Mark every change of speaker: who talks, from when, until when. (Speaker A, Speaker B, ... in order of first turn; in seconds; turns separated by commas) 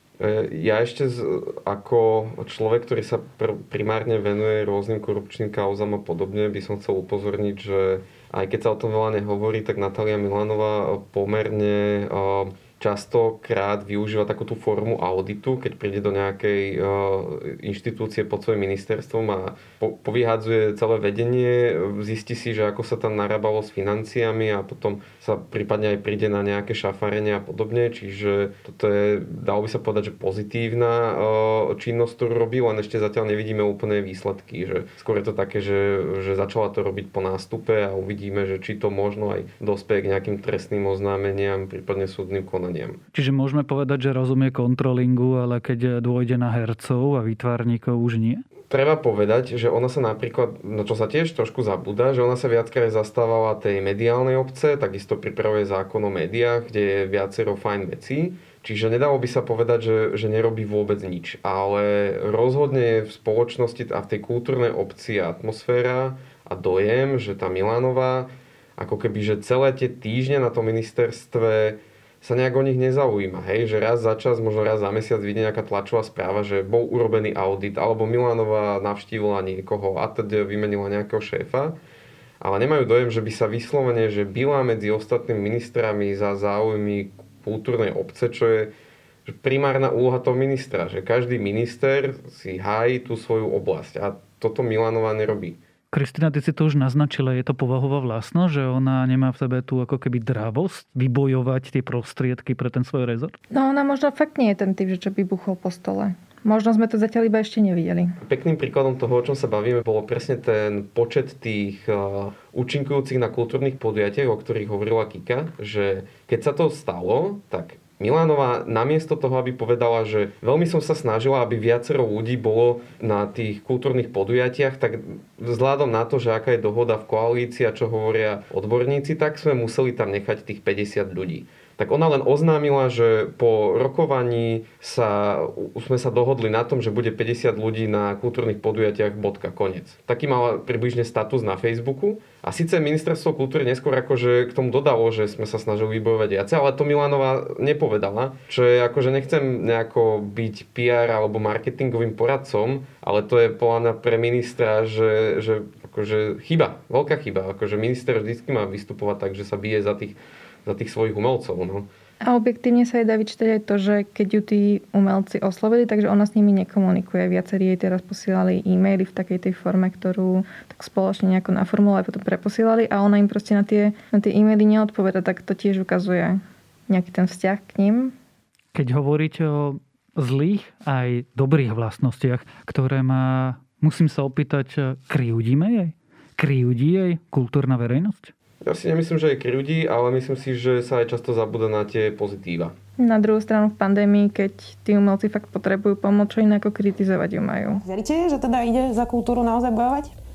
Speaker A: 0.2-43.0, Speaker B: 43.1-48.4, Speaker A: 48.7-81.8, Speaker A: 82.4-88.7, Speaker A: 89.3-95.6, Speaker B: 95.9-103.4, Speaker C: 103.5-108.2, Speaker A: 108.2-161.9, Speaker C: 162.2-178.1, Speaker B: 178.7-188.3, Speaker A: 188.6-192.7, Speaker C: 193.0-197.8, Speaker D: 197.8-200.1